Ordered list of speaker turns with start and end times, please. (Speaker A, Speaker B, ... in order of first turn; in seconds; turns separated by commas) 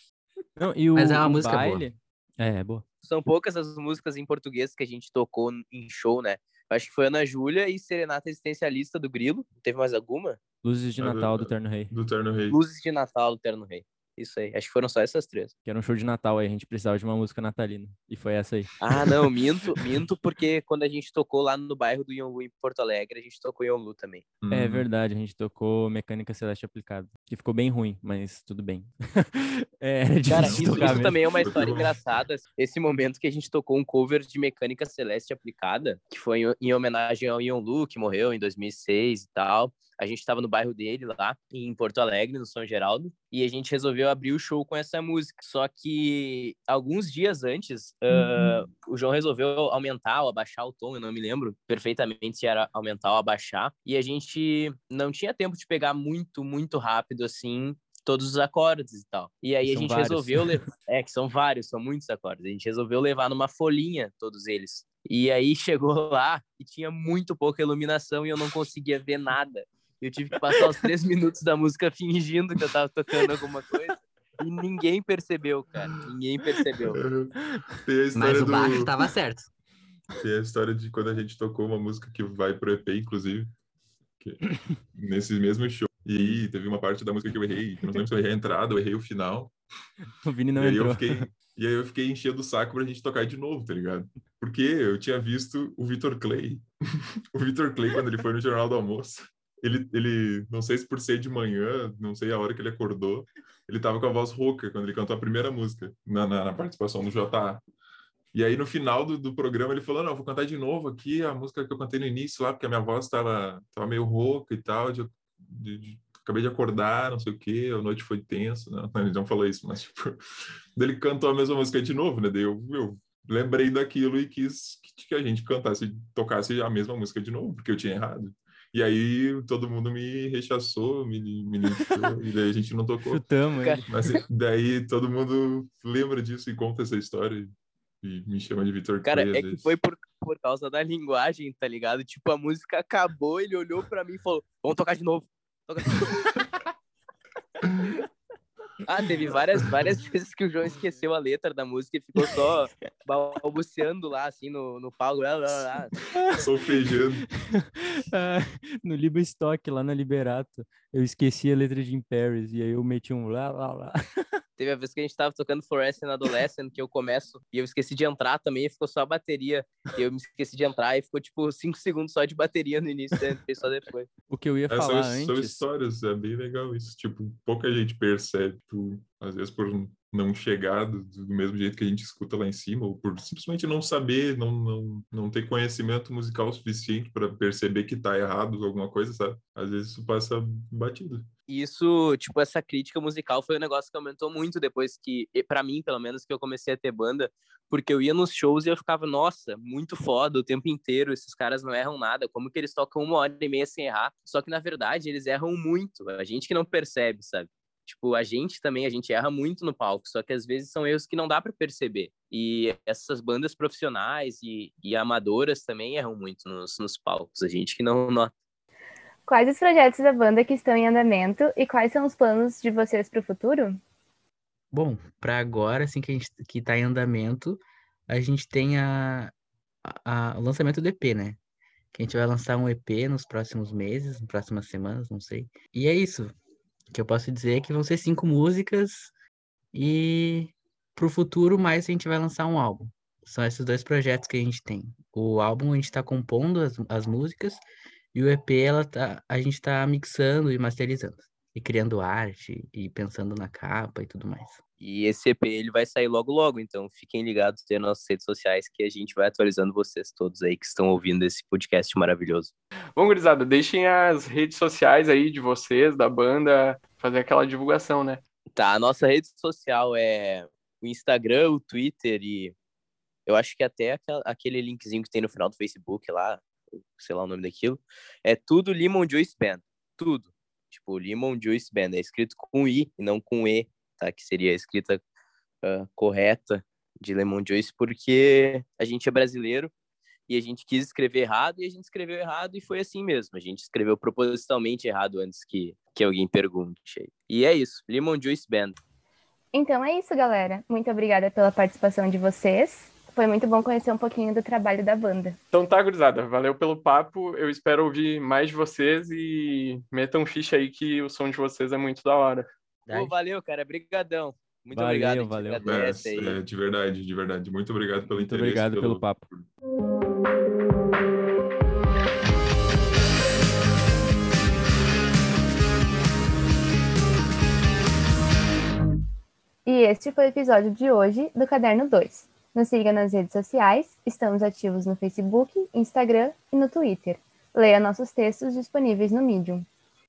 Speaker A: 0.6-2.8, Speaker B: 0.9-1.9, Speaker C: 3.0-10.4, Speaker A: 10.6-11.9, Speaker D: 11.0-12.6, Speaker C: 12.5-15.5, Speaker A: 15.6-18.8, Speaker C: 18.8-24.2, Speaker D: 24.4-24.9, Speaker A: 24.5-31.2, Speaker C: 30.3-77.0, Speaker D: 30.3-32.0, Speaker A: 59.6-60.6, Speaker D: 76.9-78.9, Speaker B: 78.1-79.5, Speaker D: 80.2-83.5, Speaker D: 84.2-89.5, Speaker A: 90.2-91.3, Speaker D: 90.6-96.7, Speaker D: 97.3-107.6, Speaker D: 108.3-133.2, Speaker A: 133.0-134.1, Speaker D: 133.9-139.7, Speaker C: 139.0-146.2, Speaker C: 148.8-155.9, Speaker A: 156.1-156.4, Speaker D: 156.3-157.2, Speaker A: 157.4-164.0, Speaker C: 164.6-174.1, Speaker A: 174.3-175.6, Speaker D: 174.7-191.3, Speaker C: 191.5-218.3, Speaker E: 219.2-223.8, Speaker B: 224.7-229.3, Speaker B: 229.8-231.4, Speaker B: 231.9-236.3, Speaker B: 236.9-239.1, Speaker B: 239.7-247.6, Speaker B: 248.1-254.6, Speaker C: 254.8-262.5, Speaker F: 262.9-268.2, Speaker C: 268.6-272.5, Speaker C: 273.2-276.4, Speaker C: 276.9-285.0, Speaker C: 285.6-289.7, Speaker C: 290.3-298.8, Speaker E: 299.5-305.4, Speaker F: 305.5-312.5, Speaker B: 312.9-313.1, Speaker C: 312.9-316.4, Speaker A: 314.7-315.6, Speaker D: 315.6-319.5, Speaker A: 318.1-319.2, Speaker E: 329.6-339.6